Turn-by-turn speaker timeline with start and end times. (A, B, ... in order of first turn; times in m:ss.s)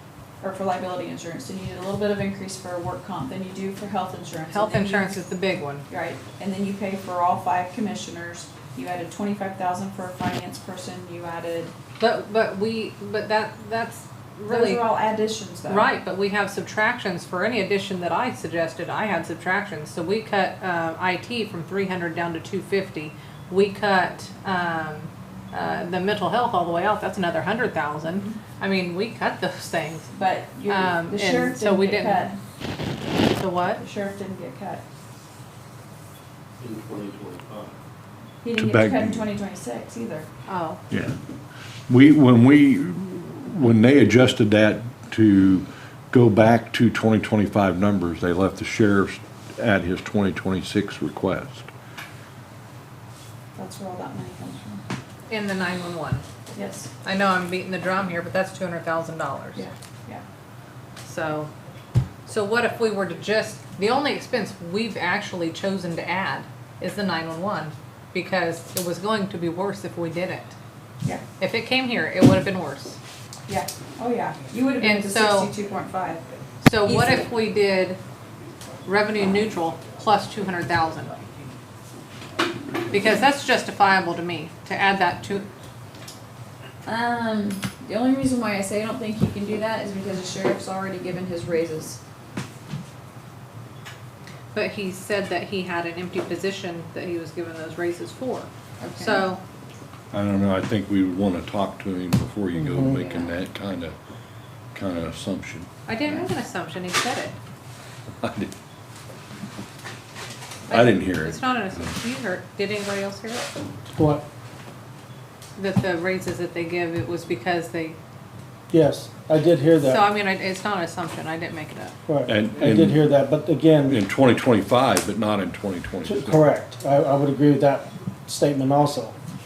0:00.4-0:05.2 A
0:04.5-0:05.8 B
0:05.9-0:11.7 A
0:12.0-0:14.8 B
0:14.5-0:15.9 A
0:15.7-0:30.1 B
0:30.1-0:32.4 A
0:30.6-0:32.3 B
0:33.3-0:33.8 B
0:33.7-0:34.8 A
0:36.6-0:37.8 C
0:38.4-0:40.3 A
0:38.6-0:39.2 C
0:40.5-0:40.8 B
0:40.9-0:41.2 C
0:41.9-0:51.7 C
0:53.5-0:54.8 A
0:55.3-0:56.2 B
0:56.5-0:56.9 A
0:57.0-0:59.6 B
0:59.6-1:00.2 A
1:01.0-1:01.5 B
1:02.2-1:10.6 B
1:11.4-1:13.0 B
1:13.5-1:16.2 A
1:14.8-1:15.5 B
1:16.6-1:18.0 B
1:16.8-1:17.2 A
1:18.8-1:21.2 B
1:22.9-1:25.5 B
1:26.8-1:32.0 A
1:34.5-1:39.4 B
1:38.8-1:39.3 A
1:40.1-1:44.0 C
1:42.6-1:43.0 D
1:42.8-1:43.4 A
1:44.7-1:45.7 C
1:45.9-1:47.4 B
1:48.2-1:48.5 C
1:50.7-1:53.5 B
1:50.7-1:51.9 C
1:54.0-1:54.2 D
1:55.6-1:58.0 B
1:58.7-2:00.0 D
1:59.8-2:02.0 B
2:02.1-2:04.0 D
2:02.3-2:03.0 C
2:03.9-2:06.4 C
2:06.0-2:09.2 D